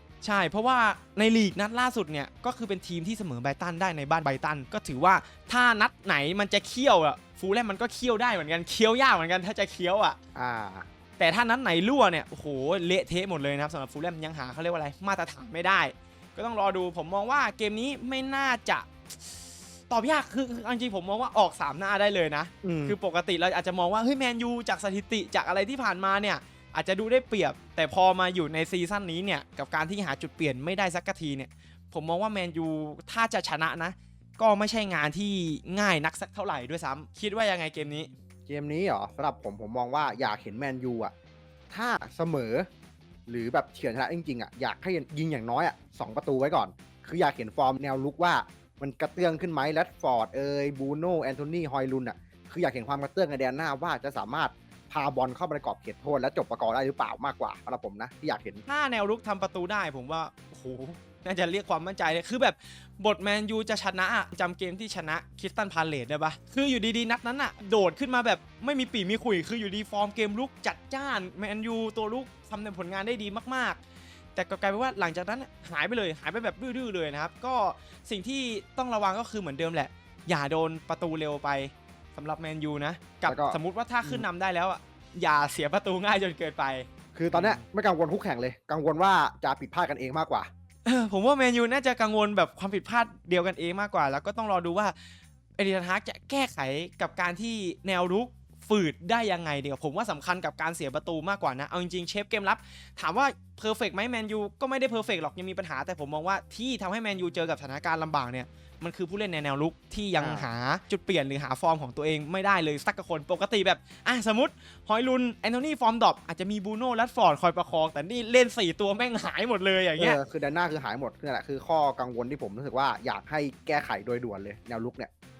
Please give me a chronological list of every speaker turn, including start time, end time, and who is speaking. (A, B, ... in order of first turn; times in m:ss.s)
0:00.2-0:10.2 A
0:10.3-0:10.9 B
0:11.2-0:19.4 A
0:19.9-0:38.1 A
0:22.6-0:23.0 B
0:38.5-0:41.1 B
0:41.7-0:42.7 B
0:43.3-0:58.6 B
0:58.7-1:13.8 A
1:14.3-1:27.6 A
1:23.2-1:24.2 B
1:27.1-1:30.5 B
1:30.8-1:35.0 A
1:35.6-2:00.2 A
1:50.2-1:50.5 B
2:00.0-2:05.1 B